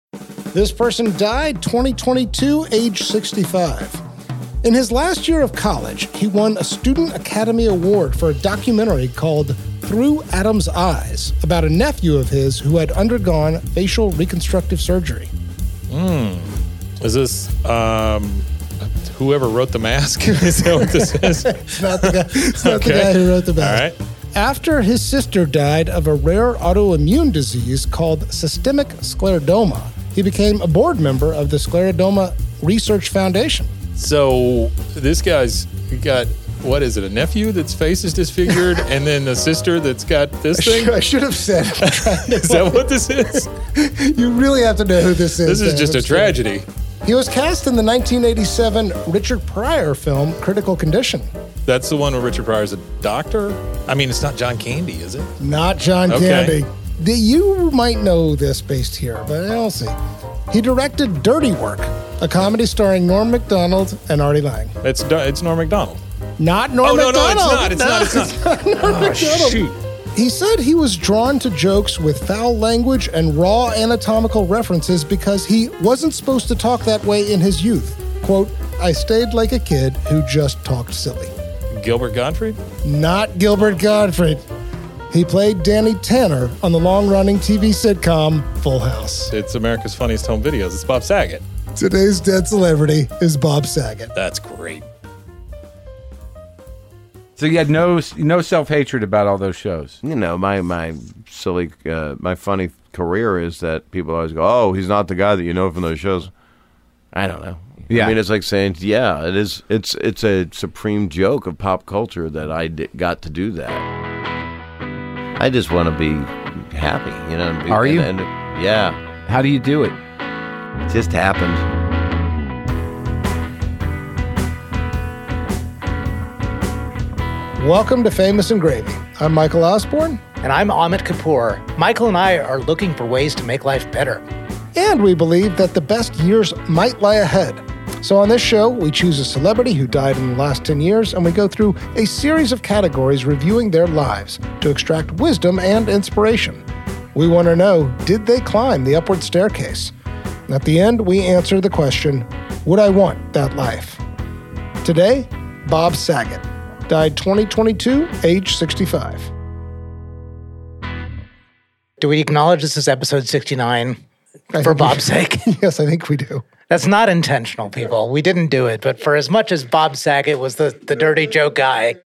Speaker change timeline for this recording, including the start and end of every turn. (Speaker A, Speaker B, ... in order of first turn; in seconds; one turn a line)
Speaker A: 0.5-4.0
Speaker A: 4.6-15.3
Speaker B: 15.9-18.4
Speaker B: 19.0-23.9
Speaker A: 20.4-33.7
Speaker B: 34.0-40.9
Speaker A: 40.5-42.9
Speaker B: 41.8-43.5
Speaker A: 43.7-46.4
Speaker B: 45.4-46.6
Speaker A: 47.0-51.3
Speaker B: 51.6-55.3
Speaker A: 55.4-60.0
Speaker B: 56.1-56.5
Speaker A: 60.5-64.7
Speaker B: 64.8-66.0
Speaker A: 66.4-81.3
Speaker B: 66.8-69.7
Speaker B: 81.7-82.6
Speaker A: 82.8-84.5
Speaker A: 85.1-89.3
Speaker B: 89.3-91.4
Speaker A: 91.7-94.1
Speaker B: 94.1-94.8
Speaker C: 97.4-100.0
Speaker D: 100.0-106.3
Speaker D: 107.1-113.8
Speaker C: 107.9-108.2
Speaker D: 115.4-119.0
Speaker C: 117.7-118.1
Speaker C: 119.3-119.9
Speaker D: 120.9-121.6
Speaker A: 127.6-130.2
Speaker E: 130.4-134.2
Speaker A: 134.7-149.9
Speaker A: 150.5-154.0
Speaker A: 154.8-159.3
Speaker E: 162.0-164.0
Speaker A: 164.5-166.4
Speaker E: 164.6-165.5
Speaker E: 166.7-172.0